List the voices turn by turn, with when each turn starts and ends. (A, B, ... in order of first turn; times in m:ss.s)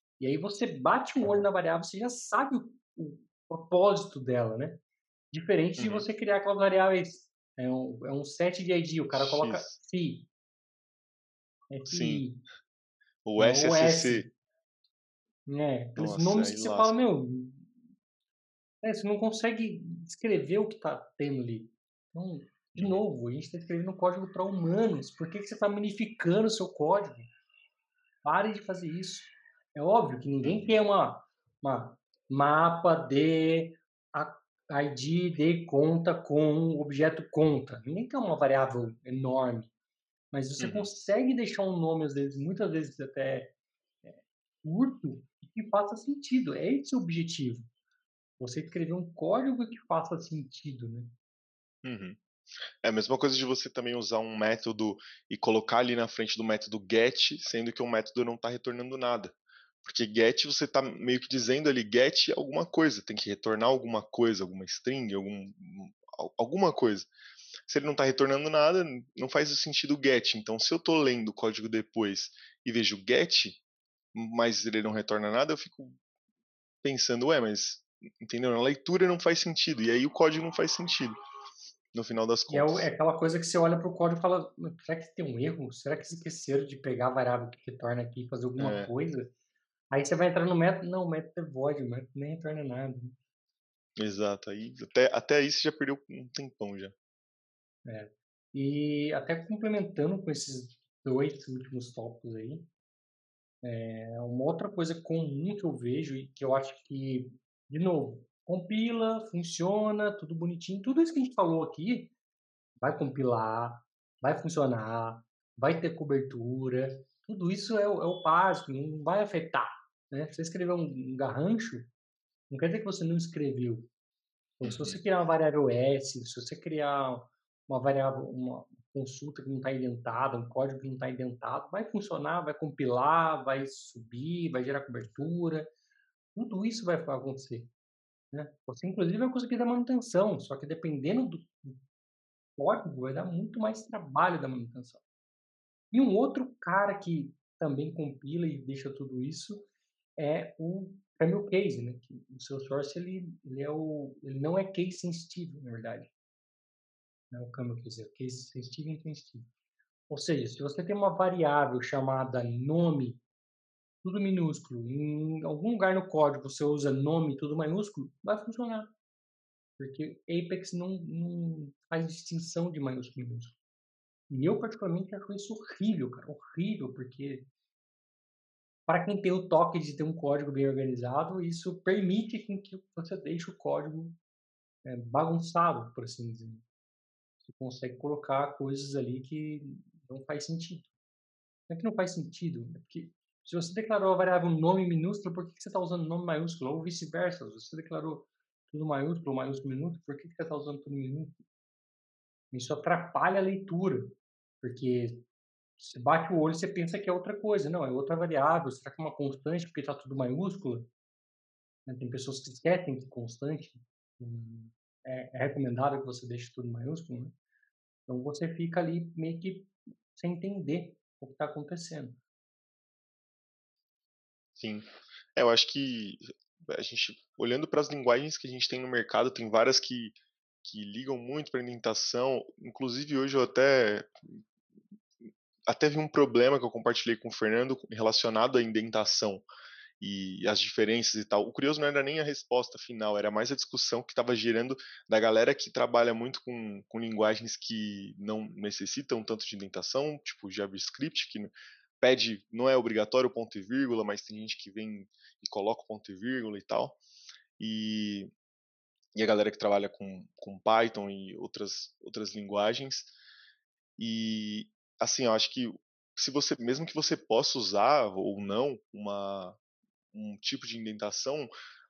0:00.2-0:04.8 A
0:05.3-0:10.3 A
0:05.8-0:06.0 B
0:09.1-0:09.8 B
0:11.7-0:12.4 A
0:11.9-0:12.3 B
0:13.2-0:14.3 B
0:13.4-0:14.3 A
0:15.5-0:17.8 A
0:16.0-0:17.0 B
0:18.8-0:27.3 A
0:22.8-0:23.0 B
0:28.2-0:39.7 A
0:30.4-0:30.8 B
0:40.3-0:43.5 A
0:40.6-0:40.9 B
0:44.0-0:47.7 A
0:48.4-0:51.1 A
0:51.8-0:52.2 B
0:52.8-1:07.1 B
1:07.7-1:13.6 B
1:14.1-1:16.0 B
1:16.8-1:21.1 B
1:21.9-1:22.9 B
1:22.5-1:29.3 A
1:28.6-1:28.9 B
1:29.9-1:33.2 A
1:34.0-1:36.9 B
1:37.8-1:42.7 A
1:43.6-1:52.1 A
1:52.8-2:01.9 A
2:02.5-2:03.9 A
2:04.6-2:15.7 A
2:04.6-2:05.0 B
2:16.4-2:17.7 A
2:18.3-2:21.8 A
2:22.6-2:25.0 A
2:25.9-2:36.1 A
2:37.3-2:39.5 A
2:40.1-2:43.2 A
2:44.0-2:48.9 A
2:49.8-2:53.6 A
2:54.3-2:57.5 A
2:58.9-3:04.2 A
3:04.8-3:06.6 A
3:07.4-3:10.9 A
3:11.7-3:21.4 A
3:22.5-3:25.2 A
3:25.8-3:30.9 A
3:31.9-3:37.4 A
3:38.1-3:42.2 A
3:44.6-3:54.4 B
3:55.7-3:59.4 B
4:00.0-4:17.0 B
4:17.6-4:18.3 B
4:19.2-4:23.1 B
4:24.0-4:29.6 B
4:30.1-4:31.5 B